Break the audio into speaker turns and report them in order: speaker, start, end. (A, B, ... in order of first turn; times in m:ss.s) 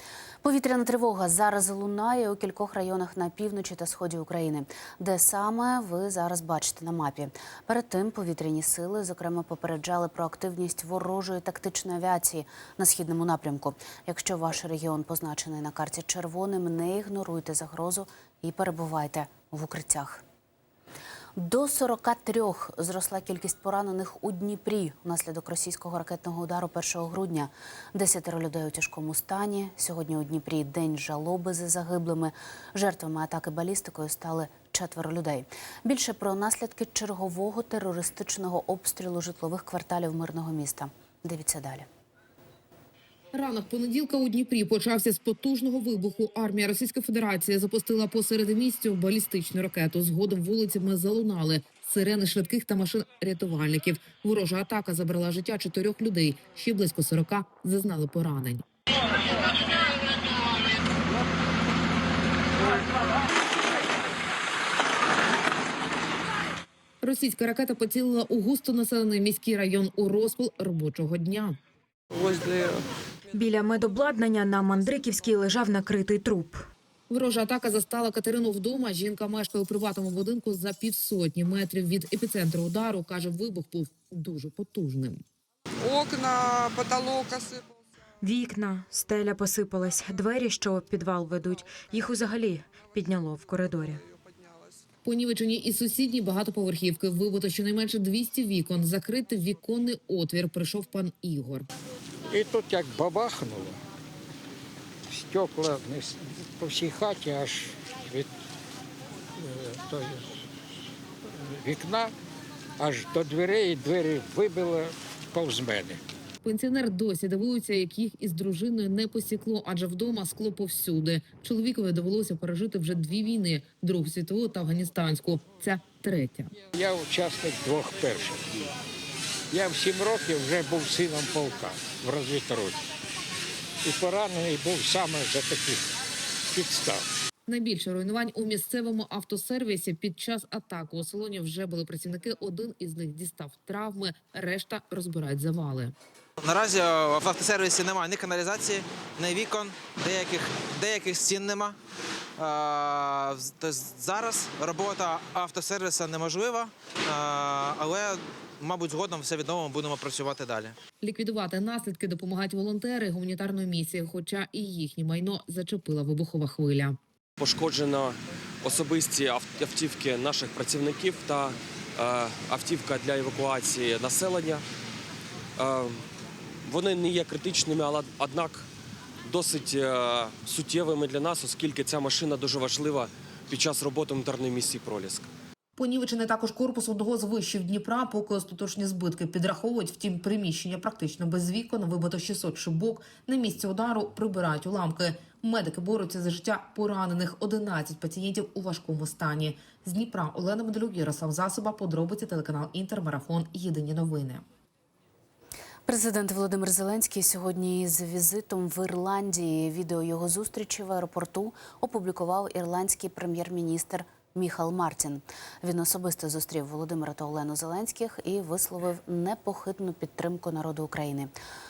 0:00.4-0:20.2 A
0:21.4-0:41.9 A
0:43.3-0:58.6 B
1:07.0-1:11.6 B
1:12.2-1:12.8 C
1:13.3-1:16.6 D
1:17.1-1:25.2 B
1:25.8-1:27.6 C
1:28.2-1:34.0 D
1:35.0-1:41.7 B
1:42.3-1:43.8 E
1:45.1-1:48.3 E
1:49.4-1:50.4 E
1:51.3-1:52.1 E
1:52.8-1:56.0 E
1:56.4-2:06.5 B
2:06.7-2:08.7 E
2:09.5-2:12.8 E
2:13.8-2:15.9 E
2:16.5-2:17.1 E
2:17.4-2:25.9 B
2:26.4-2:31.8 F
2:32.4-2:40.8 F
2:41.0-2:47.0 B
2:47.4-2:54.6 G
2:55.6-2:56.0 G
2:56.6-2:58.7 G
2:59.2-3:05.2 G
3:05.8-3:24.4 B
3:25.8-3:41.3 A